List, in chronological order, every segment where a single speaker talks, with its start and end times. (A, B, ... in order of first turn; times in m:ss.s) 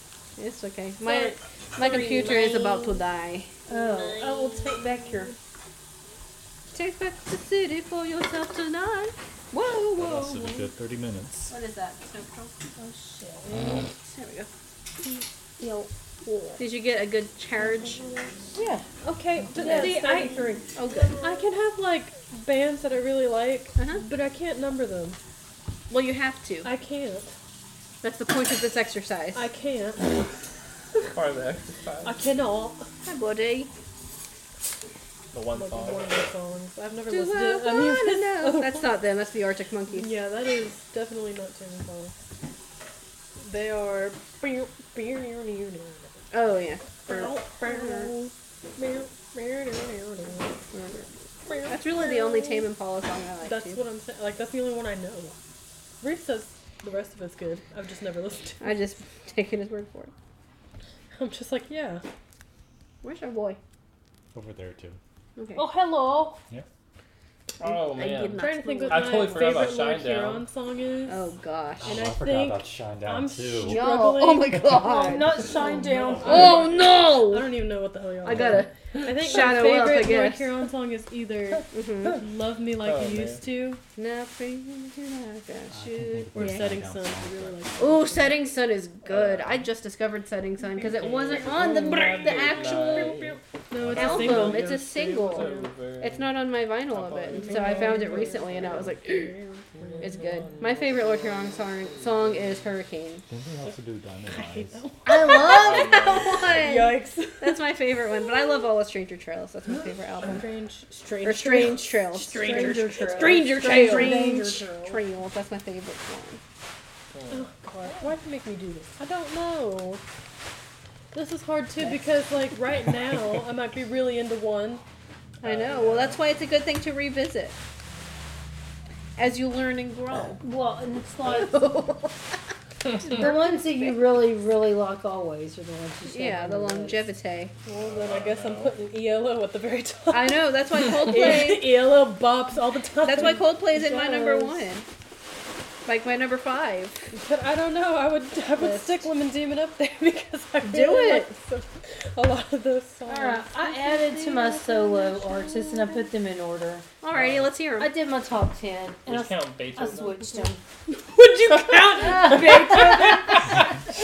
0:00.4-0:03.5 A
0:01.0-0:03.0 B
0:03.7-0:05.3 C
0:03.7-0:05.3 B
0:06.7-0:10.7 A
0:09.9-0:11.5 D
0:11.5-0:12.5 A
0:12.8-0:13.8 C
0:14.0-0:14.5 A
0:15.6-0:16.6 C
0:16.6-0:18.0 A
0:17.6-0:25.2 B
0:18.5-0:18.8 C
0:19.5-0:21.2 C
0:19.6-0:21.4 A
0:23.8-0:24.0 A
0:25.9-0:26.7 A
0:26.6-0:27.3 B
0:28.0-0:29.5 A
0:29.3-0:30.3 B
0:31.1-0:32.2 E
0:32.0-0:32.9 B
0:33.0-0:33.7 A
0:35.3-0:36.2 E
0:35.5-0:38.9 B
0:37.1-0:40.1 A
0:39.9-0:42.1 B
0:43.4-0:46.2 B
0:46.3-0:48.1 A
0:47.0-0:50.6 B
0:50.7-0:51.1 A
0:51.4-0:52.7 B
0:51.6-0:53.8 A
0:53.4-0:55.3 B
0:56.0-0:58.9 B
0:58.6-1:00.1 A
1:01.2-1:02.0 B
1:03.0-1:03.6 A
1:04.3-1:05.0 D
1:05.4-1:05.6 A
1:05.6-1:06.4 B
1:07.6-1:09.6 A
1:07.6-1:10.5 E
1:08.4-1:11.3 B
1:11.1-1:11.9 A
1:11.8-1:13.9 D
1:11.8-1:23.8 B
1:13.6-1:15.4 A
1:14.8-1:16.6 C
1:15.6-1:16.9 D
1:16.2-1:17.5 A
1:18.2-1:20.5 A
1:18.3-1:18.6 D
1:21.7-1:22.2 A
1:22.8-1:23.4 E
1:24.0-1:26.8 A
1:25.7-1:28.0 D
1:26.3-1:28.4 B
1:27.8-1:33.4 A
1:29.1-1:29.5 E
1:30.7-1:35.7 B
1:30.8-1:33.4 E
1:33.7-1:34.6 D
1:33.9-1:39.4 A
1:34.1-1:36.3 E
1:36.9-1:38.7 E
1:37.4-1:40.5 B
1:39.7-1:42.6 E
1:40.0-1:43.2 A
1:43.3-1:44.9 D
1:44.3-1:45.8 B
1:45.0-1:50.4 A
1:45.3-1:46.4 E
1:46.1-1:46.7 D
1:46.5-1:47.6 B
1:50.2-1:54.5 B
1:51.2-1:56.4 A
1:52.3-1:55.0 C
1:57.1-1:57.5 E
1:57.3-2:00.0 B
2:01.1-2:04.8 B
2:05.4-2:07.6 A
2:05.4-2:06.2 E
2:09.2-2:10.4 A
2:10.4-2:11.6 C
2:11.2-2:12.2 A
2:13.0-2:17.0 C
2:13.0-2:14.0 A
2:16.1-2:17.5 A
2:17.6-2:23.6 B
2:17.8-2:18.8 E
2:20.1-2:21.7 A
2:23.0-2:24.8 A
2:23.7-2:24.6 C
2:25.8-2:27.1 A
2:27.1-2:36.0 B
2:28.5-2:29.1 A
2:30.6-2:31.3 A
2:33.0-2:36.9 C
2:37.0-2:37.9 A
2:37.1-2:37.5 E
2:37.8-2:40.6 C
2:39.0-2:40.4 E
2:40.9-2:43.5 B
2:41.9-2:43.6 A
2:42.0-2:42.6 C